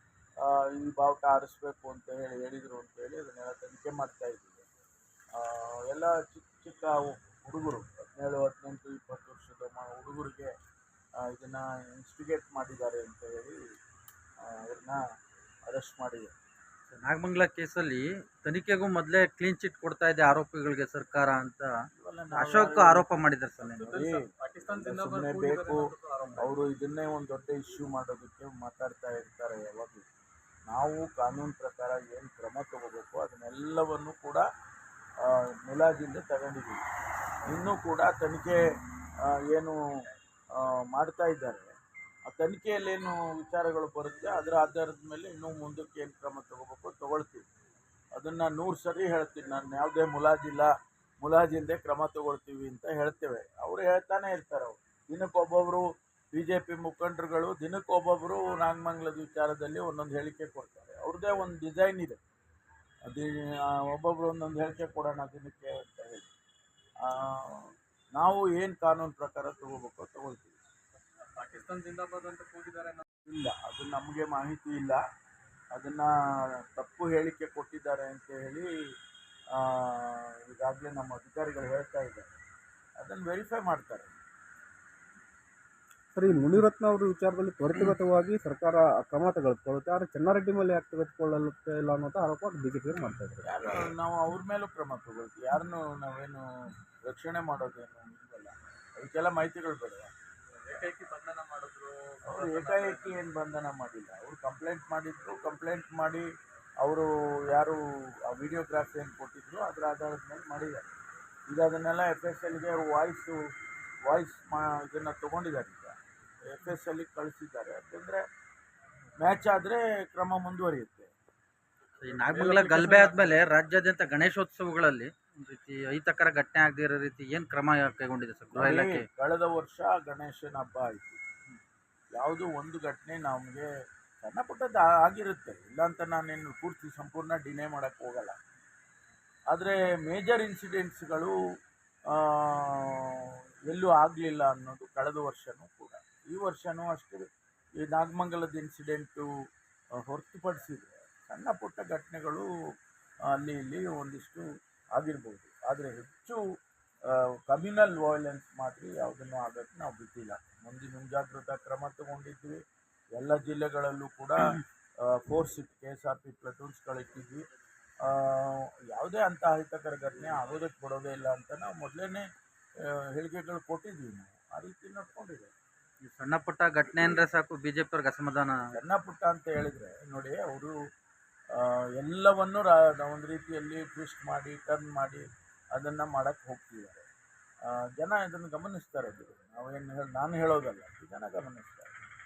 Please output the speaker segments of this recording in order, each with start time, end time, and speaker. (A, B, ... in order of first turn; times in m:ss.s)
0:00.4-0:04.7 A
0:05.4-0:10.5 A
0:11.2-0:13.6 A
0:14.4-0:15.0 A
0:15.7-0:16.3 A
0:16.9-0:21.7 B
0:21.9-0:23.1 A
0:22.3-0:24.0 B
0:23.6-0:26.6 C
0:23.9-0:30.1 A
0:30.7-0:34.5 A
0:35.3-0:36.8 A
0:37.5-0:38.6 A
0:39.3-0:39.8 A
0:40.6-0:41.8 A
0:42.3-0:47.5 A
0:48.2-1:02.2 A
1:03.1-1:06.3 A
1:07.1-1:10.6 A
1:11.3-1:13.0 C
1:13.2-1:15.0 A
1:15.7-1:18.7 A
1:19.6-1:22.3 A
1:23.0-1:24.1 A
1:26.1-1:33.5 D
1:33.4-1:40.1 A
1:40.5-1:43.2 C
1:42.2-1:46.3 A
1:46.8-1:50.9 A
1:51.5-1:53.4 A
1:54.1-1:58.2 A
1:59.2-2:01.1 A
2:02.0-2:09.1 B
2:02.1-2:03.4 C
2:08.5-2:11.2 A
2:12.2-2:13.7 A
2:14.2-2:18.4 A
2:19.5-2:21.4 A
2:22.1-2:29.3 A
2:30.0-2:32.5 A
2:33.3-2:36.4 A
2:37.1-2:42.6 A
2:43.2-2:47.5 A
2:48.0-2:52.3 A
2:52.9-2:55.5 A
2:56.0-2:58.6 B
2:58.7-3:00.8 A
3:01.6-3:07.0 A
3:07.7-3:11.9 A